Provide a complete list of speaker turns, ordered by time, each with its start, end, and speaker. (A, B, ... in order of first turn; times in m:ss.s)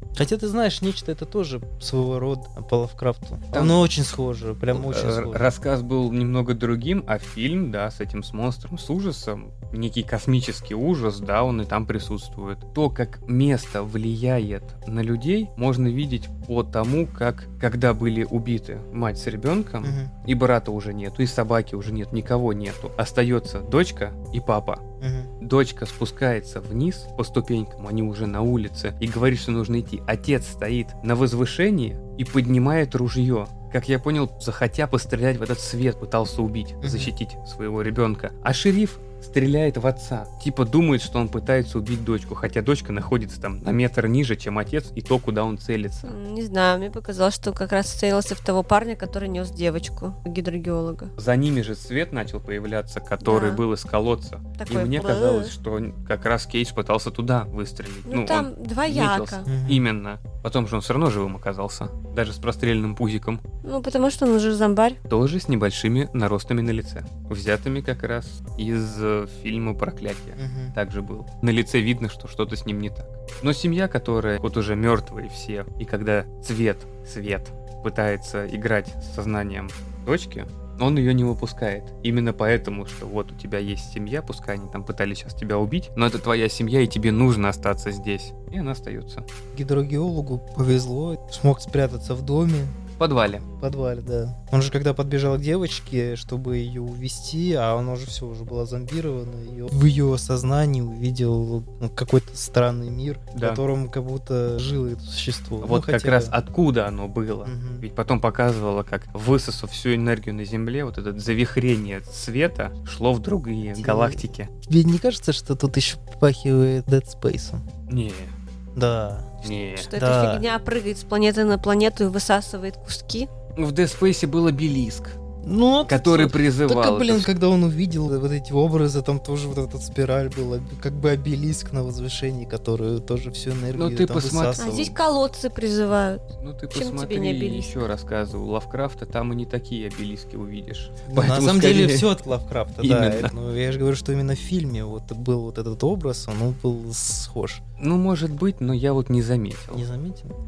0:00.2-0:05.5 A
0:03.5-0:03.8 B
0:04.7-0:24.8 B
0:19.8-0:20.1 A
0:25.0-0:25.3 A
0:25.4-0:46.1 B
0:36.8-0:37.1 A
0:46.0-0:51.1 C
0:51.2-1:03.4 B
0:53.2-0:53.6 C
0:54.6-0:55.5 C
0:58.1-0:59.5 C
0:59.5-0:59.9 A
1:03.6-1:05.0 C
1:05.1-1:29.2 B
1:10.4-1:10.8 A
1:29.5-1:32.8 A
1:33.0-1:33.4 B
1:33.4-1:46.3 A
1:43.3-1:43.6 B
1:45.6-1:54.5 B
1:47.4-1:47.8 A
1:53.8-1:57.6 A
1:57.9-1:58.3 B
1:58.7-2:00.4 A
1:59.4-1:59.9 B
1:59.8-2:03.3 C
2:03.6-2:05.2 B
2:05.4-2:14.9 A
2:05.9-2:07.3 B
2:13.7-2:14.7 B
2:14.6-2:17.8 C
2:16.4-2:22.1 B
2:21.1-2:27.6 A
2:22.8-2:23.3 B
2:27.8-2:29.8 B
2:29.7-2:30.3 A